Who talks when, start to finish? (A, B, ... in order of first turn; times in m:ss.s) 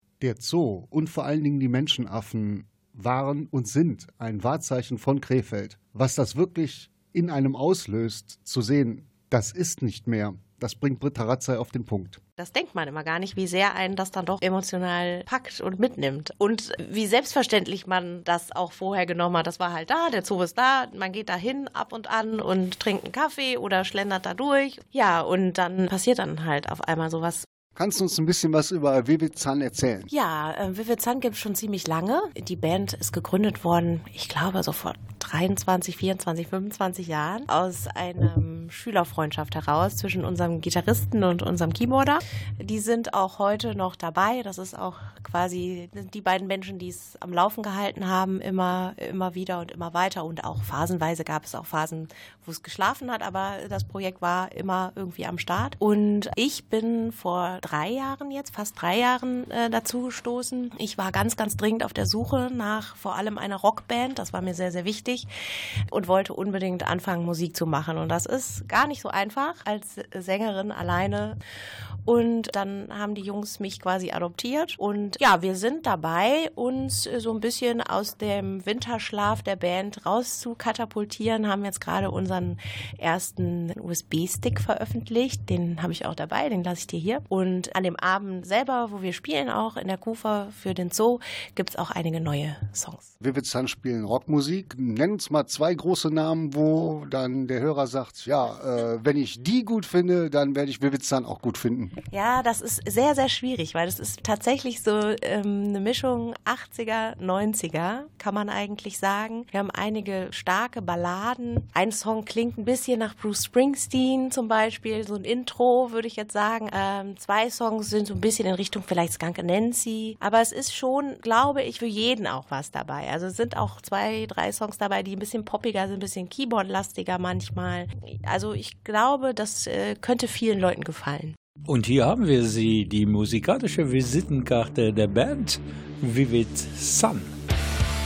0:00.2-0:12.2 A
0:12.4-0:27.4 B
0:27.7-0:30.1 A
0:30.1-1:05.3 B
1:05.9-1:11.4 B
1:12.0-1:33.1 B
1:33.2-1:42.0 A
1:42.1-2:11.4 B
2:11.6-2:17.4 C